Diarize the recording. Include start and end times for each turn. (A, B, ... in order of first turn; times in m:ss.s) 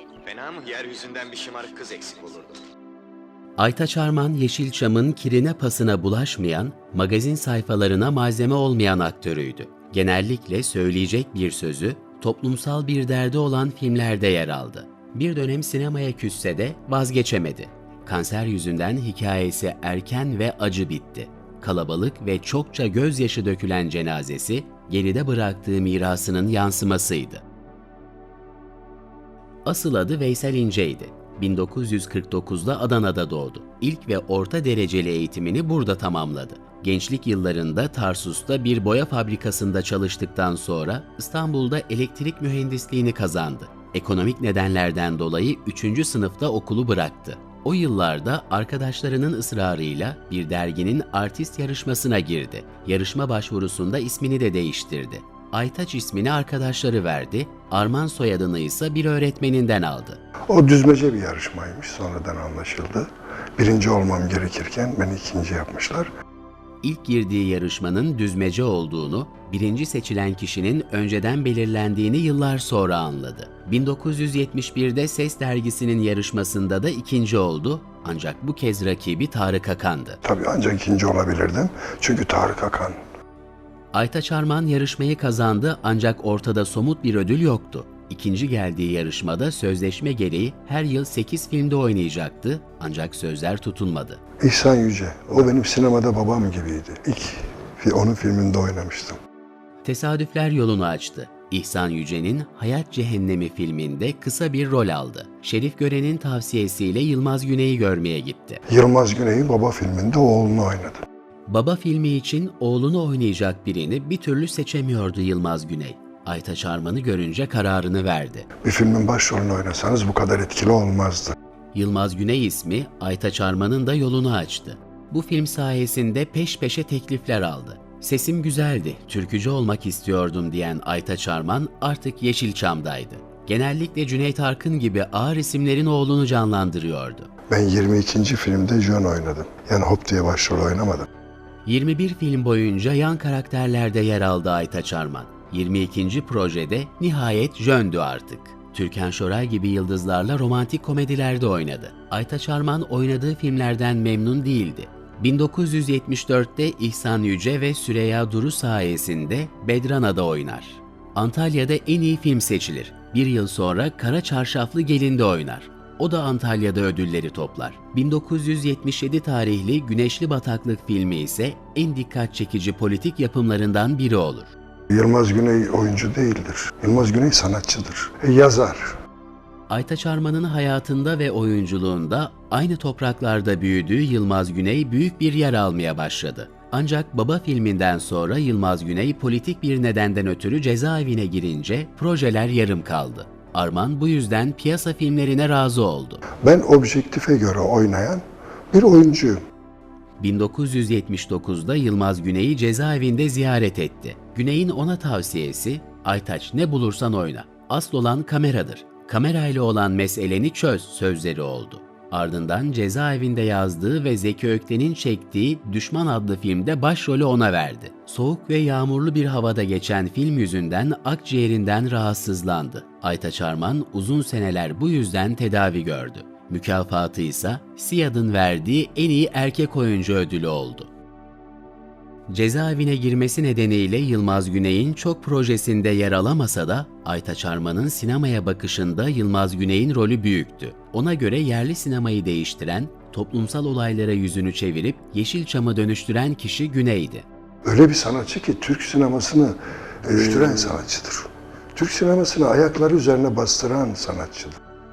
0:00.2-0:02.6 A
0:03.6-0:27.4 B
0:29.6-1:00.2 B
1:00.5-1:06.1 C
1:06.8-1:20.2 B
1:20.2-1:23.0 C
1:23.9-1:34.2 B
1:34.4-1:39.2 C
1:39.8-1:48.6 B
1:48.7-1:51.0 C
1:51.5-1:58.5 B
1:58.6-2:01.3 C
2:01.7-2:17.3 B
2:17.5-2:21.1 C
2:21.6-2:54.5 B
2:54.9-2:58.9 C
2:59.7-3:16.2 B
3:16.4-3:19.4 C
3:20.2-3:50.9 B
3:52.3-4:07.2 B
4:07.6-4:14.6 C